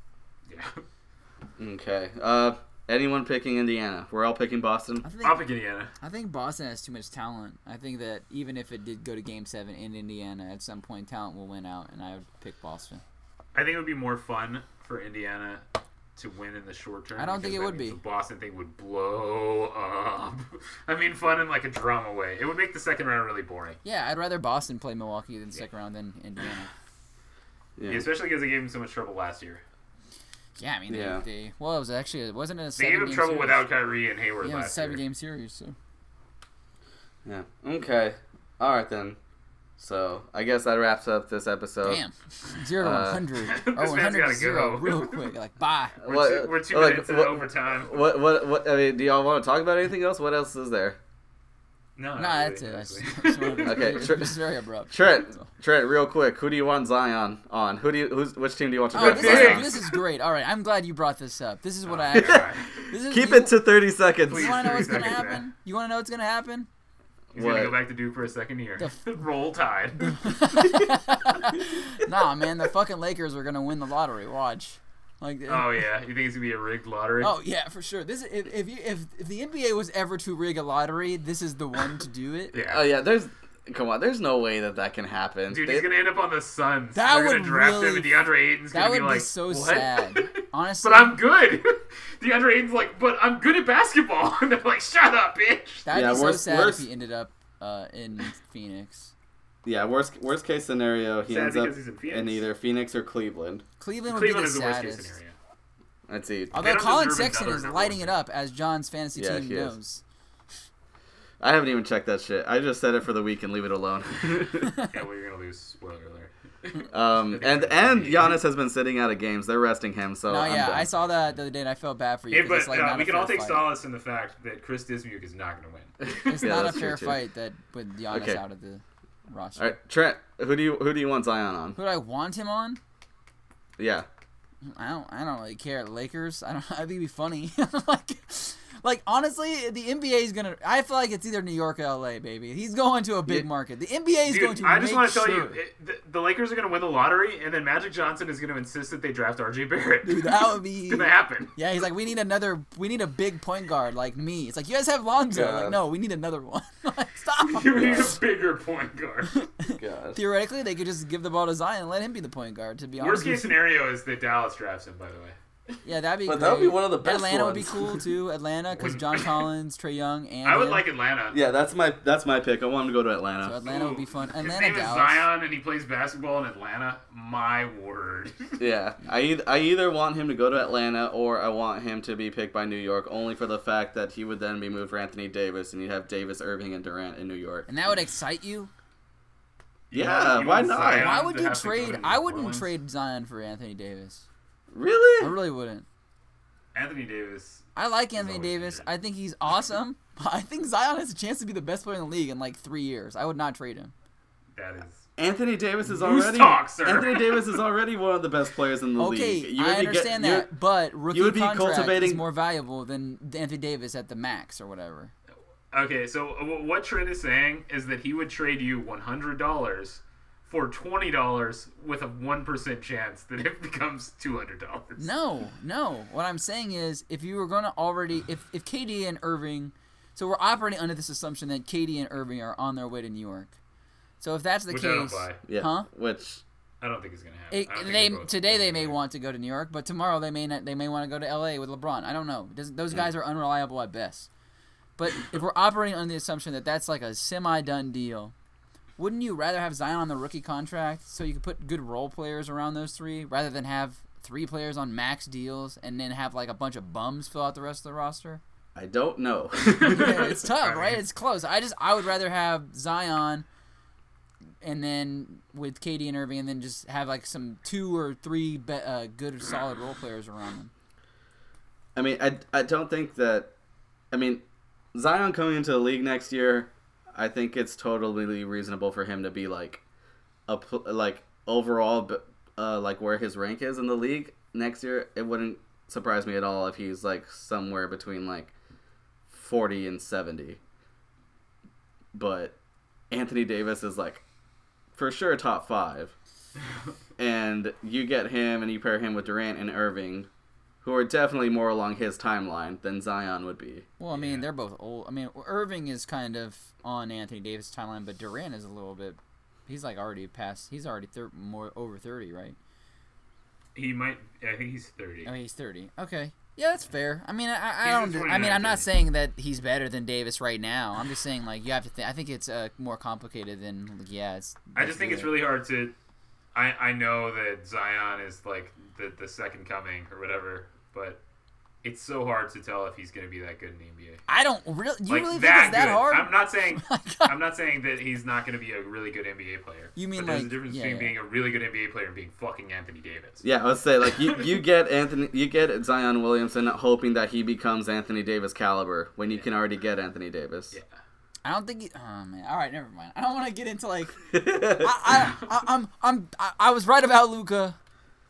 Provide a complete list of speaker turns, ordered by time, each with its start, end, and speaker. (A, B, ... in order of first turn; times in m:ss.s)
0:00.5-0:00.8 A
0:01.6-0:05.0 B
0:05.0-0:05.4 C
0:05.2-0:05.9 A
0:06.0-0:13.0 C
0:13.5-0:15.6 A
0:16.2-0:23.8 A
0:17.2-0:18.0 C
0:23.8-0:26.7 C
0:27.8-0:28.1 B
0:27.9-0:29.6 A
0:30.6-0:33.6 C
0:30.9-0:31.2 B
0:32.8-0:35.0 A
0:34.4-0:35.7 C
0:37.2-0:39.2 B
0:39.8-0:42.0 B
0:41.8-0:46.0 C
0:42.8-0:43.3 B
0:43.5-0:45.3 A
0:46.0-0:48.0 A
0:46.0-0:51.0 B
0:52.0-0:54.0 A
0:52.2-0:55.4 C
0:53.6-0:54.4 B
0:54.9-0:59.7 B
0:58.9-1:03.6 C
0:59.0-0:59.9 A
1:01.8-1:02.7 A
1:02.2-1:02.4 B
1:03.0-1:05.1 B
1:04.2-1:05.4 A
1:04.3-1:06.7 C
1:07.3-1:07.8 B
1:07.3-1:10.3 A
1:08.8-1:09.0 C
1:10.1-1:15.8 C
1:15.5-1:17.3 A
1:17.2-1:22.5 C
1:22.5-1:22.8 A
1:22.7-1:25.9 B
1:25.5-1:35.9 A
1:26.9-1:28.1 C
1:28.7-1:31.2 C
1:35.8-1:39.1 C
1:35.9-1:36.8 B
1:39.6-1:43.6 B
1:41.2-1:42.4 A
1:43.8-1:45.2 C
1:44.1-1:45.4 A
1:46.1-1:46.6 B
1:46.5-1:48.1 A
1:46.5-1:50.0 C
1:49.1-1:49.8 B
1:51.4-1:54.8 B
1:54.9-1:58.4 A
1:56.9-2:00.9 B
2:00.3-2:03.7 C
2:02.3-2:05.9 A
2:06.0-2:07.2 B
2:06.2-2:09.8 C
2:08.1-2:08.4 B
2:09.6-2:11.8 B
2:11.8-2:12.8 C
2:13.8-2:14.1 B
2:14.6-2:25.6 C
2:24.2-2:31.5 A
2:30.0-2:38.1 C
2:35.3-2:35.8 B
2:37.4-2:39.4 A
2:37.8-2:38.1 B
2:39.3-2:43.6 C
2:39.8-2:40.2 B
2:43.0-2:45.4 A
2:45.8-2:50.8 C
2:46.2-2:48.0 B
2:48.7-2:49.4 A
2:50.4-2:51.4 A
2:51.3-2:53.6 B
2:53.4-2:55.2 C
2:53.6-2:58.6 A
2:58.6-3:07.7 B
3:07.7-3:08.7 C
3:09.9-3:11.1 B
3:09.9-3:12.7 A
3:11.0-3:14.2 C
3:14.7-3:15.3 B
3:15.2-3:15.8 C
3:16.7-3:18.9 A
3:17.8-3:23.9 C
3:24.5-3:25.0 A
3:25.2-3:30.5 B
3:25.8-3:27.6 A
3:29.0-3:35.1 C
3:31.1-3:32.2 B
3:35.7-3:45.1 A
3:45.0-3:53.5 C
3:54.2-3:55.9 C
3:54.7-3:55.4 A
3:55.4-3:56.4 B
3:56.8-3:59.0 A
3:57.5-4:04.3 C
4:05.0-4:08.3 C
4:09.0-4:18.4 C
4:18.7-4:20.4 B
4:19.7-4:23.4 C
4:19.8-4:21.0 A
4:24.6-4:30.7 C
4:31.9-4:33.5 B
4:34.1-4:34.4 B
4:34.9-4:39.8 B
4:40.5-4:48.5 B
4:49.3-4:50.6 B
4:52.1-4:52.6 B
4:53.1-4:54.2 B
4:54.9-4:56.1 B
4:57.2-5:00.3 B
5:00.8-5:03.9 B
5:04.0-5:12.6 C
5:04.1-5:04.4 A
5:13.7-5:15.3 A
5:15.2-5:25.4 C
5:17.8-5:18.9 A
5:24.7-5:25.9 A
5:26.5-5:31.2 A
5:31.8-5:34.2 A
5:34.3-5:37.4 C
5:35.1-5:43.4 A
5:40.0-5:41.1 C
5:43.4-5:50.8 B
5:44.1-5:44.5 A
5:51.4-5:57.8 C
5:54.3-5:55.0 B